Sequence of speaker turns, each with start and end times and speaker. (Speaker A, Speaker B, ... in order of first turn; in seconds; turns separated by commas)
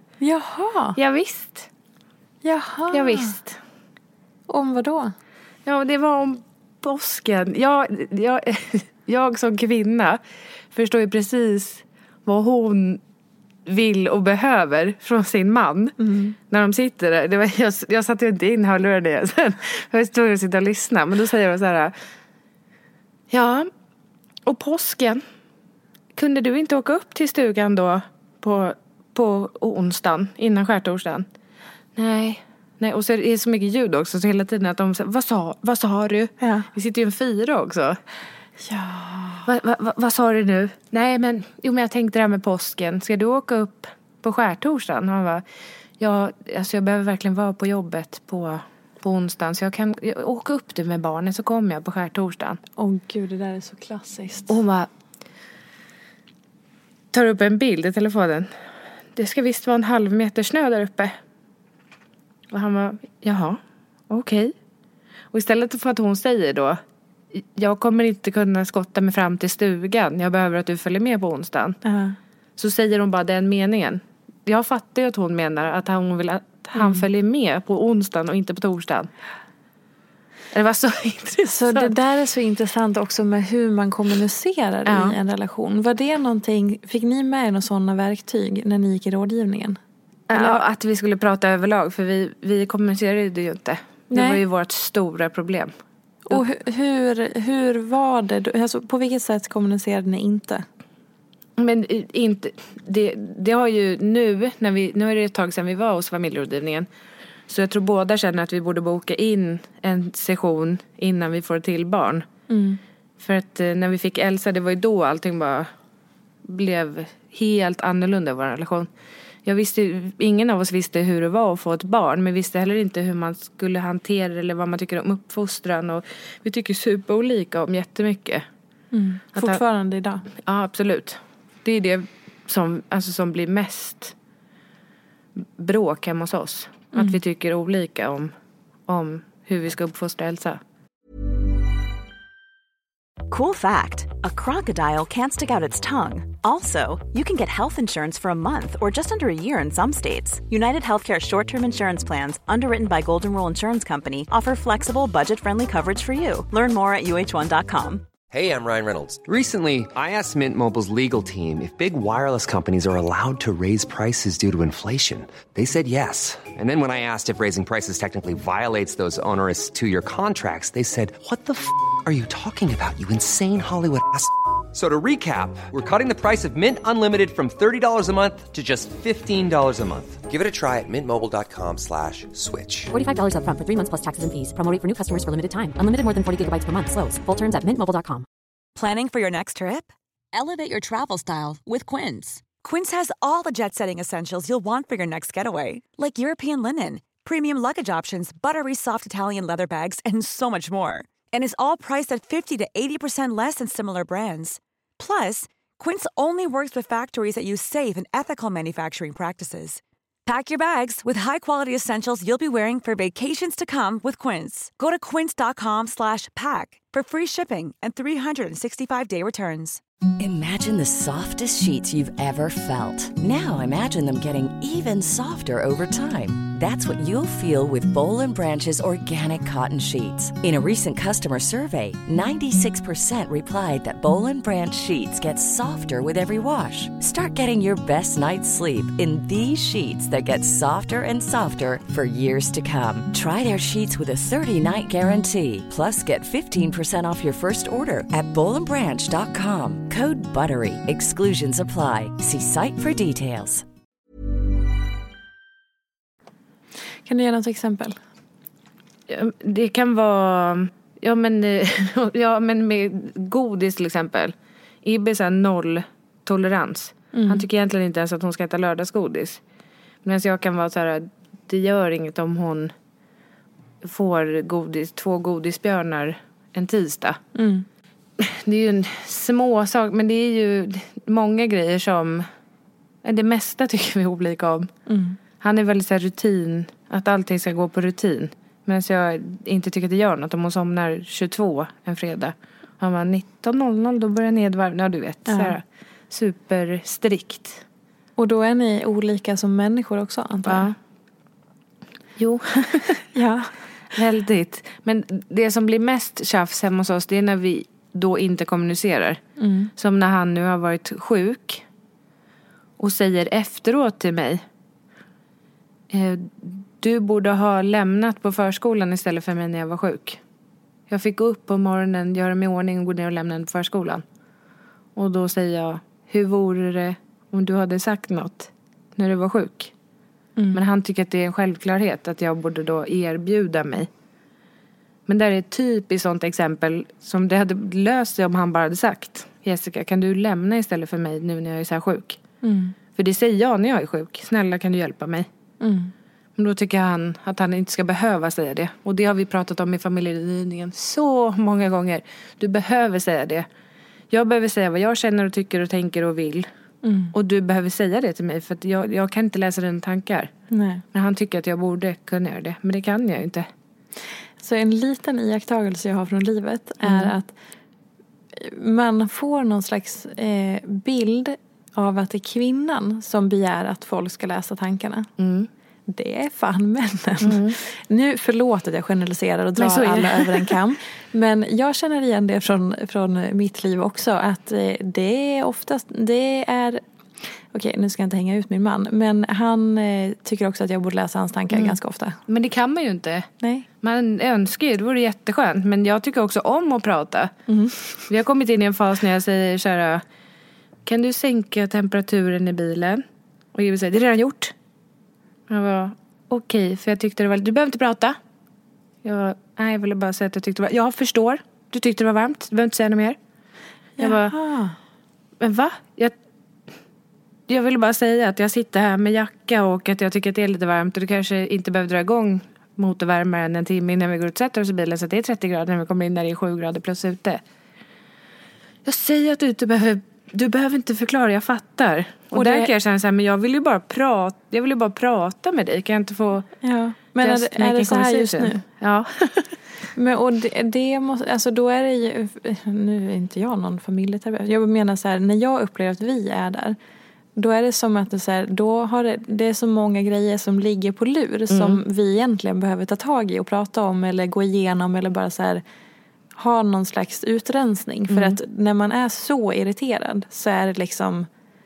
Speaker A: 0.2-1.0, Speaker B: 0.9-1.7, Speaker A: 2.4-3.3, Speaker B: 2.9-3.6, Speaker A: 4.5-5.1, Speaker B: 5.7-10.2, Speaker B: 10.7-13.0, Speaker B: 13.7-15.9, Speaker A: 16.0-16.4, Speaker B: 16.5-21.9, Speaker B: 23.3-23.7, Speaker B: 24.4-25.2, Speaker B: 26.1-31.2, Speaker B: 31.9-38.0, Speaker A: 38.6-39.5, Speaker B: 39.5-45.4, Speaker B: 46.0-52.6, Speaker A: 52.8-54.5, Speaker B: 54.5-54.9, Speaker B: 57.1-58.5, Speaker B: 59.1-61.1, Speaker B: 62.5-63.6, Speaker B: 64.1-64.5, Speaker B: 65.3-66.8, Speaker B: 67.3-71.8, Speaker A: 71.8-72.2, Speaker B: 72.6-79.1, Speaker A: 76.7-77.0, Speaker B: 80.5-81.9, Speaker A: 81.5-89.8, Speaker B: 84.8-85.2, Speaker B: 90.3-95.7, Speaker A: 90.3-90.6, Speaker A: 94.1-94.4, Speaker A: 96.3-100.6, Speaker B: 101.6-106.9, Speaker B: 107.5-112.2, Speaker A: 112.5-112.8, Speaker B: 113.2-115.7, Speaker B: 116.4-118.9, Speaker B: 119.4-128.4, Speaker A: 128.9-130.2, Speaker B: 130.4-134.1, Speaker B: 135.6-138.3, Speaker B: 138.9-140.6, Speaker C: 143.3-158.1, Speaker D: 158.3-182.9, Speaker E: 182.9-188.3, Speaker F: 188.8-190.9, Speaker E: 190.9-192.4, Speaker F: 191.9-219.8, Speaker G: 220.2-253.6, Speaker A: 257.1-257.9, Speaker B: 259.1-269.4, Speaker A: 267.1-267.4, Speaker B: 270.0-272.7, Speaker B: 273.8-277.2, Speaker A: 277.3-277.6, Speaker B: 278.2-282.2, Speaker B: 283.0-284.7, Speaker A: 284.9-285.2, Speaker B: 285.4-297.6, Speaker A: 295.3-295.6, Speaker A: 298.2-300.7, Speaker B: 300.4-300.7, Speaker B: 302.2-303.1, Speaker A: 303.1-303.5, Speaker B: 303.9-309.2, Speaker A: 309.4-309.7, Speaker B: 309.8-311.6, Speaker B: 312.8-314.4, Speaker B: 315.9-320.2, Speaker B: 320.9-324.0, Speaker B: 324.9-329.7, Speaker A: 330.4-330.6, Speaker B: 330.5-333.9, Speaker B: 335.1-342.2, Speaker A: 342.4-342.8, Speaker B: 342.9-345.3, Speaker A: 345.6-345.9, Speaker B: 346.4-353.4, Speaker B: 354.1-356.5, Speaker A: 356.8-357.1, Speaker B: 357.1-360.3, Speaker A: 360.5-360.8, Speaker B: 360.9-363.5, Speaker A: 364.4-367.3, Speaker B: 366.8-367.1, Speaker A: 368.4-375.1, Speaker B: 375.2-375.5, Speaker A: 375.9-386.8, Speaker B: 377.2-377.6, Speaker B: 379.6-380.5, Speaker A: 387.5-392.2, Speaker B: 391.5-393.3, Speaker B: 393.8-397.3, Speaker A: 397.5-397.9, Speaker B: 398.1-400.0, Speaker B: 400.9-403.0, Speaker B: 403.5-404.5, Speaker B: 405.5-408.2, Speaker B: 409.0-413.2, Speaker B: 414.0-414.3, Speaker A: 414.0-414.8, Speaker B: 415.4-416.1, Speaker B: 417.5-427.4, Speaker B: 428.9-436.5, Speaker A: 432.3-432.7, Speaker A: 436.6-438.6, Speaker B: 437.2-439.5, Speaker A: 439.9-446.8, Speaker A: 447.4-455.6, Speaker B: 451.5-451.8, Speaker A: 456.4-461.3, Speaker B: 458.1-458.4